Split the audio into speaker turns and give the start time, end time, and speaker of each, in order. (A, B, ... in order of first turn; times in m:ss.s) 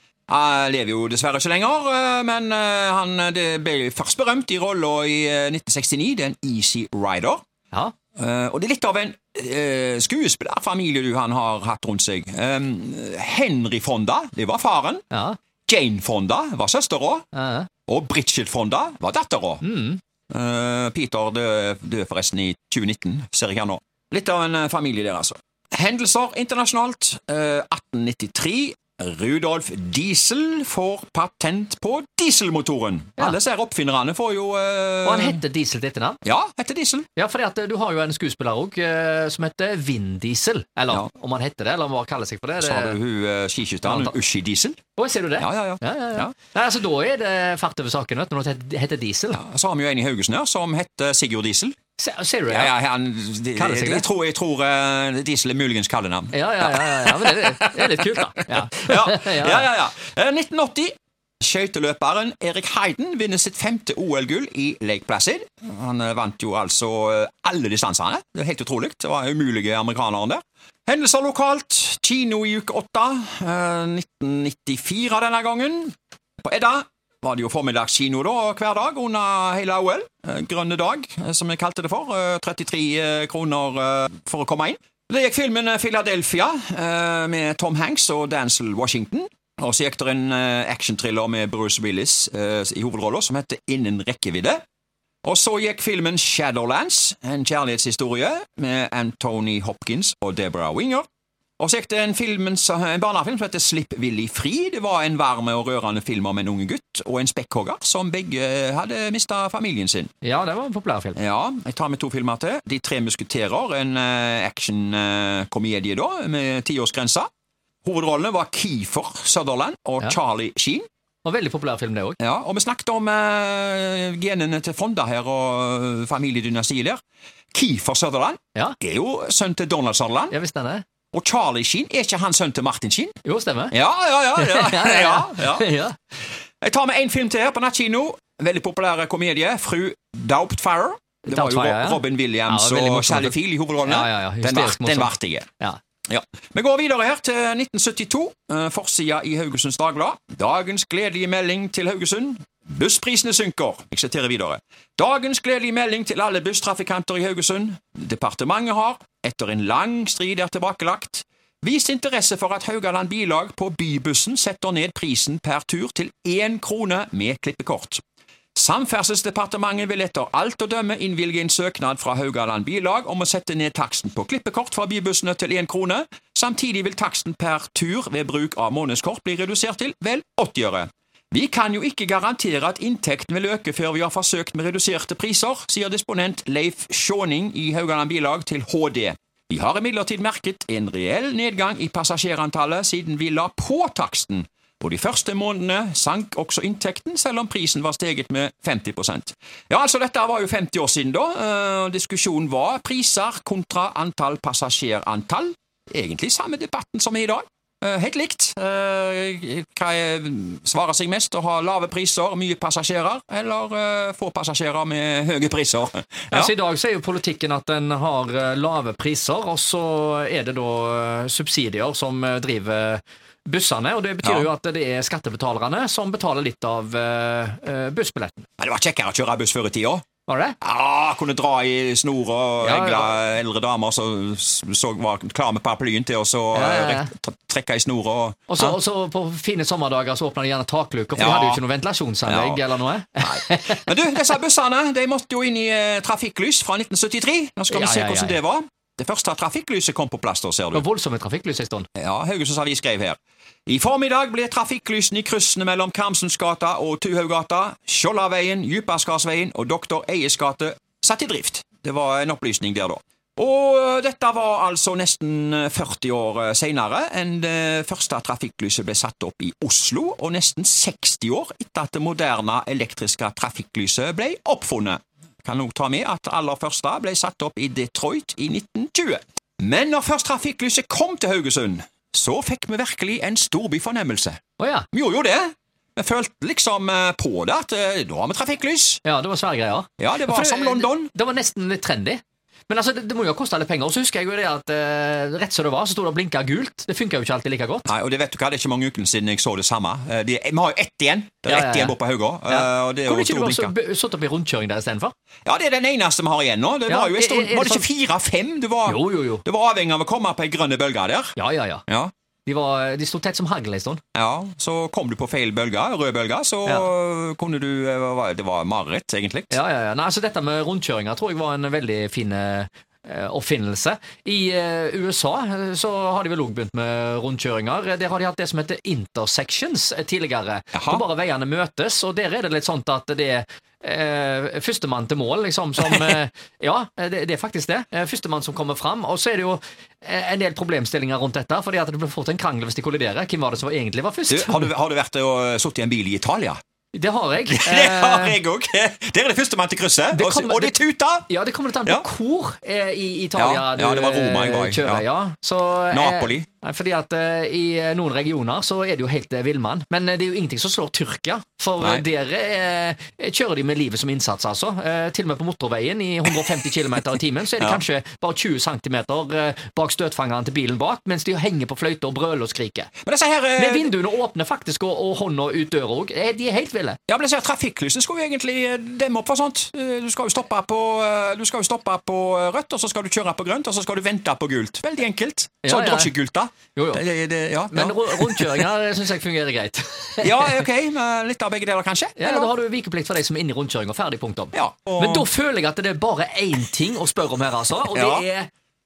0:00.3-0:07.4 A
0:08.2-0:15.0 A
0:15.1-0:15.4 B
0:15.7-0:17.2 A
0:17.3-0:17.7 B
0:17.9-0:19.6 A
0:19.6-0:20.0 B
0:20.3-0:35.4 A
0:35.0-0:36.2 B
0:36.2-0:37.1 A
0:37.1-0:43.0 B
0:42.6-0:44.8 A
0:43.8-0:44.1 B
0:45.0-0:49.4 B
0:45.4-0:46.3 A
0:49.3-0:51.8 A
0:52.0-0:52.7 B
0:52.5-1:34.6 A
0:53.6-0:54.0 B
0:56.3-0:59.7 B
1:35.2-1:41.0 A
1:41.6-1:50.1 A
1:50.2-1:51.2 B
1:51.2-1:57.3 A
1:57.8-2:00.8 A
2:01.2-2:02.2 B
2:02.2-2:07.0 A
2:07.5-2:10.3 A
2:10.3-2:10.8 B
2:11.1-2:13.2 A
2:13.2-2:13.7 B
2:13.7-2:15.7 A
2:14.4-2:16.0 B
2:16.6-2:25.4 A
2:21.2-2:25.8 B
2:26.1-2:48.0 A
2:48.5-3:36.5 A
3:36.3-3:48.4 B
3:44.2-3:44.5 A
3:48.6-3:50.0 A
3:50.3-3:50.6 B
3:50.6-3:58.8 A
3:52.6-3:53.2 B
3:56.5-3:57.1 B
3:58.5-4:03.9 B
4:01.2-4:01.6 A
4:02.2-4:02.6 A
4:03.2-4:10.8 A
4:07.7-4:08.4 B
4:10.7-4:11.9 B
4:12.0-4:44.4 A
4:44.6-4:44.9 B
4:44.9-4:49.0 A
4:49.0-4:57.9 B
4:50.0-4:51.1 A
4:57.8-5:03.7 A
5:01.4-5:02.0 B
5:02.5-5:05.1 B
5:05.4-5:11.4 A
5:06.9-5:07.8 B
5:08.8-5:09.4 B
5:11.4-5:11.8 B
5:11.9-5:12.1 A
5:12.4-5:14.0 B
5:14.1-5:19.6 A
5:19.5-5:44.7 B
5:30.7-5:31.0 A
5:35.8-5:36.1 A
5:44.3-5:46.6 A
5:46.9-5:48.4 B
5:47.5-5:51.3 A
5:50.1-6:12.9 B
5:53.4-5:55.0 A
5:55.9-5:56.4 A
6:13.0-6:13.9 A
6:13.6-6:17.0 B
6:17.1-6:28.7 A
6:25.6-6:26.1 B
6:26.7-6:27.0 B
6:27.7-6:30.6 B
6:30.2-6:32.5 A
6:32.2-6:38.5 B
6:34.5-6:35.3 A
6:37.9-6:38.2 A